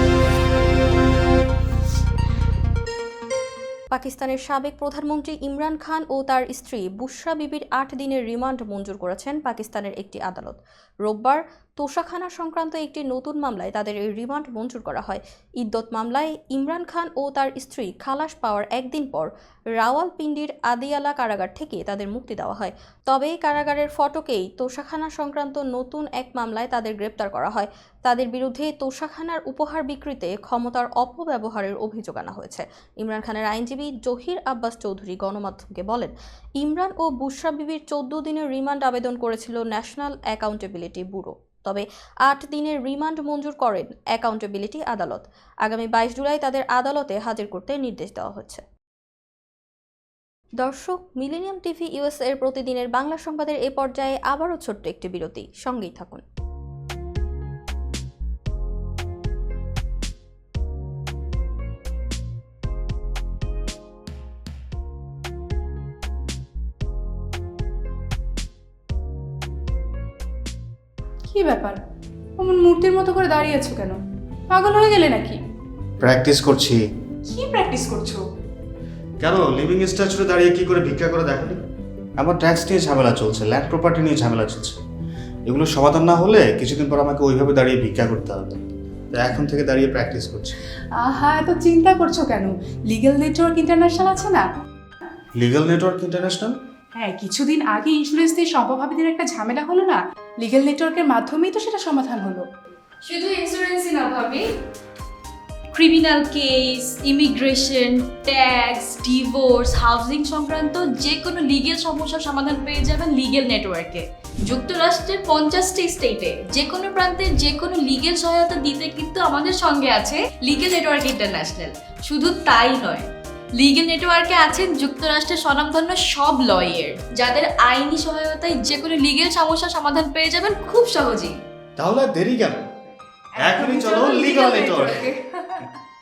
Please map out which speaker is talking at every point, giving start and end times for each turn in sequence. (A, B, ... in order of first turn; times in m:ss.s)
0:03.9-0:48.6 A
0:50.6-0:56.2 A
1:11.3-1:11.8 B
1:12.4-1:14.0 B
1:14.5-1:15.4 B
1:16.0-1:16.8 C
1:17.3-1:18.2 B
1:19.2-1:21.6 C
1:22.2-1:24.8 C
1:25.5-1:28.6 C
1:29.1-1:30.5 C
1:31.0-1:34.4 B
1:35.4-1:36.5 C
1:37.0-1:42.4 B
1:43.0-1:44.4 D
1:45.7-2:11.4 D
2:11.8-2:12.6 C
2:13.4-2:15.2 B
2:13.4-2:15.0 C